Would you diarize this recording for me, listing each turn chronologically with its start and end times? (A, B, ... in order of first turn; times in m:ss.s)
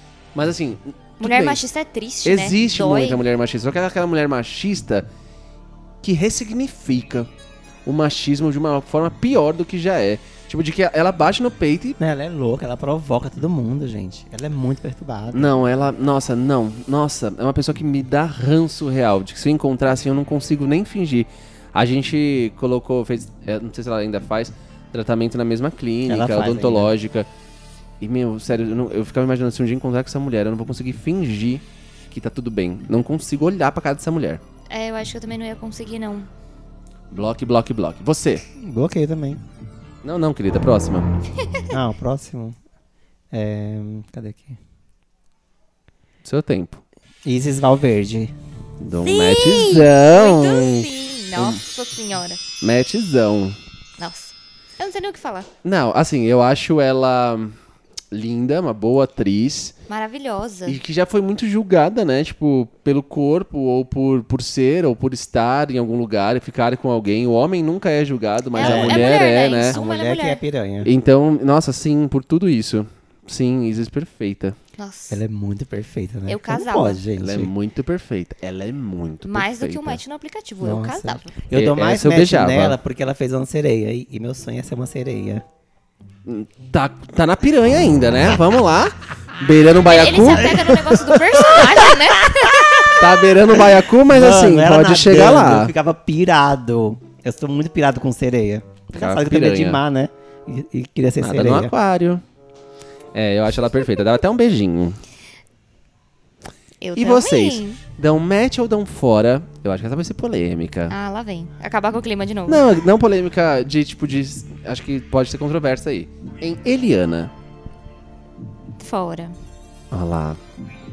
0:00.3-0:01.6 A
0:01.2-0:03.2 B
0:02.2-0:05.1 A
0:06.0-0:07.3 A
0:07.8-0:12.0 A
0:12.0-0:15.5 C
0:15.3-0:27.3 A
0:26.0-0:26.9 C
0:28.0-0:34.4 A
0:34.7-0:36.3 B
0:37.1-0:38.4 A
0:38.6-0:39.4 C
0:40.0-0:41.1 A
0:41.7-0:42.6 C
0:43.3-0:44.6 C
0:46.2-0:46.8 A
0:47.2-0:48.3 C
0:48.8-0:51.6 A
0:49.0-0:52.4 B
0:52.6-0:53.6 A
0:54.0-0:55.5 B
0:55.6-0:57.6 A
0:58.1-0:59.7 A
0:59.9-1:00.8 B
1:00.6-1:09.8 A
1:08.5-1:10.4 B
1:08.6-1:09.1 C
1:09.7-1:10.9 C
1:10.8-1:14.6 A
1:14.8-1:15.2 B
1:15.1-1:17.5 C
1:16.3-1:17.0 B
1:17.2-1:20.0 A
1:19.2-1:21.3 B
1:20.6-1:25.4 C
1:21.5-1:22.8 A
1:26.2-1:31.7 A
1:29.8-1:33.1 B
1:32.9-1:35.7 A
1:34.1-1:41.7 C
1:38.9-1:39.8 A
1:41.2-1:42.2 A
1:43.1-1:45.0 A
1:46.8-1:47.8 B
1:47.0-1:50.9 A
1:50.9-1:52.6 B
1:52.5-1:57.3 A
1:58.8-1:59.4 B
1:59.9-2:00.4 A